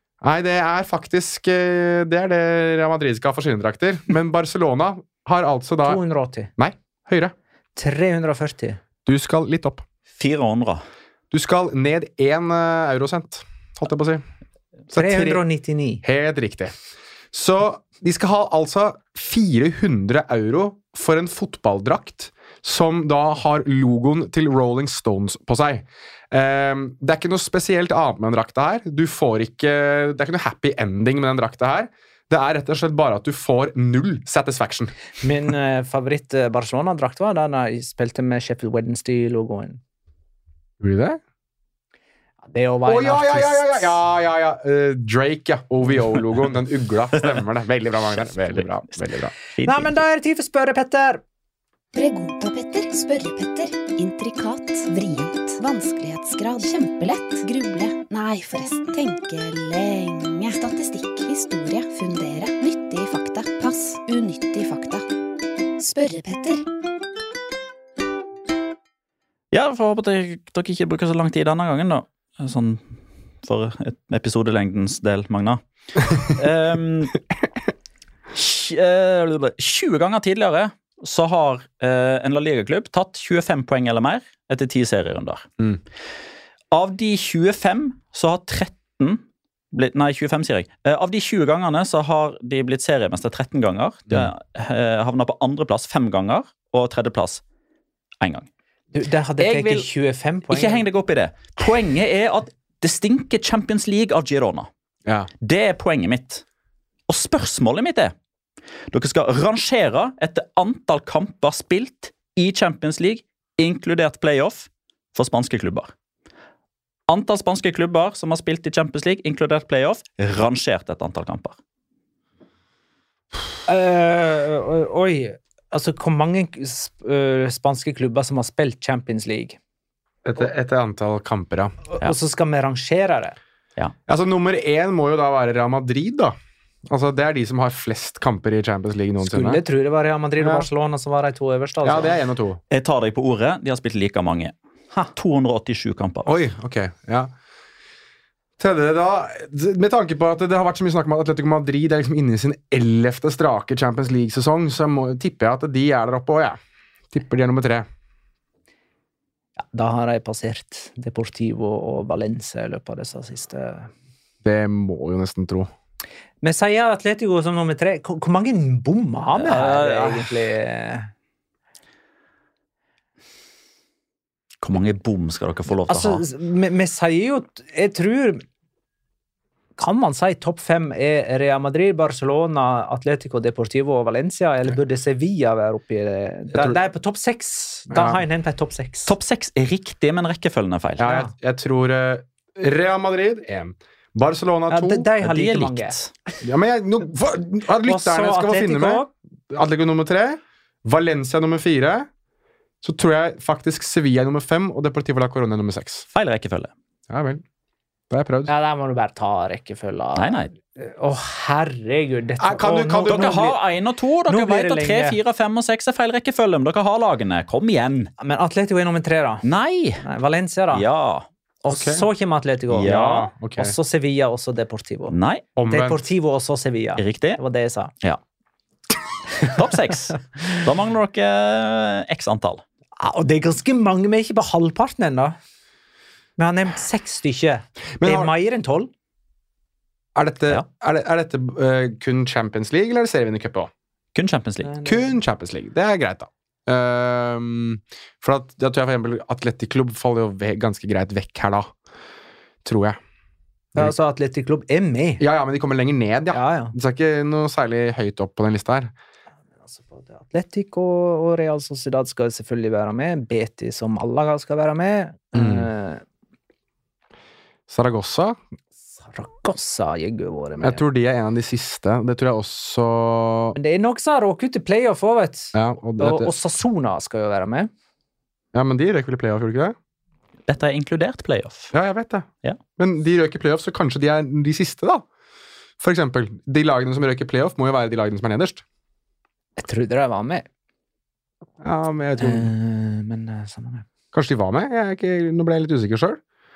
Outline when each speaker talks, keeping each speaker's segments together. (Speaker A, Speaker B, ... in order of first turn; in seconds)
Speaker A: 0.2-6.0, 6.6-7.3, 9.1-9.8, 11.3-14.2, 14.9-15.4, 16.0-16.7, 17.3-34.9, 40.8-41.2, 42.9-49.3, 130.2-131.8, 134.1-136.3, 136.9-139.6, 140.4-140.7, 141.8-142.6, 146.2-147.3, 148.6-156.6, 157.1-157.9, 164.4-165.7, 186.5-186.8, 187.9-188.2, 191.0-195.1, 196.4-202.1, 202.8-206.1, 207.1-207.4, 208.1-208.5, 212.4-213.3, 221.7-222.0, 222.8-223.7, 225.6-226.0, 238.0-238.3, 240.1-243.7, 244.8-251.7, 252.6-253.0, 255.2-258.9, 265.3-265.7, 267.7-268.4, 270.6-273.6, 275.5-276.3, 278.5-279.8, 281.7-285.0, 285.8-288.6, 291.6-292.5, 294.1-296.2
Speaker B: 5.8-6.5, 7.8-8.8, 14.9-16.0, 35.2-39.8, 42.5-44.0, 49.6-51.2, 98.9-100.8, 123.7-129.6, 131.9-133.3, 139.2-142.2, 159.6-163.9, 166.4-171.1, 175.9-178.4, 179.8-189.1, 194.7-195.9, 197.8-199.1, 208.5-213.6, 214.3-215.2, 218.2-219.4, 220.0-220.8, 221.6-225.1, 225.7-227.9, 233.0-235.3, 236.4-238.9, 244.6-245.1, 253.7-255.2, 256.3-256.7, 259.6-266.0, 269.0-270.8, 273.5-277.7, 289.6-290.4, 292.2-293.9
Speaker C: 10.2-10.8, 49.6-49.9, 69.5-72.8, 73.4-77.2, 78.3-85.5, 86.7-89.2, 89.7-97.4, 98.2-98.5, 99.4-99.8, 100.5-104.7, 105.4-106.4, 107.1-108.1, 108.9-115.9, 117.1-121.6, 142.7-144.5, 145.1-146.3, 169.3-170.3, 174.6-176.2, 189.1-191.1, 195.2-196.1, 206.1-206.7, 210.1-210.5, 213.0-218.1, 219.4-220.0, 220.7-221.3, 222.7-223.1, 225.1-225.4, 227.0-227.4, 229.4-232.6, 244.1-244.7, 280.5-281.7
Speaker D: 52.0-65.0, 65.8-66.6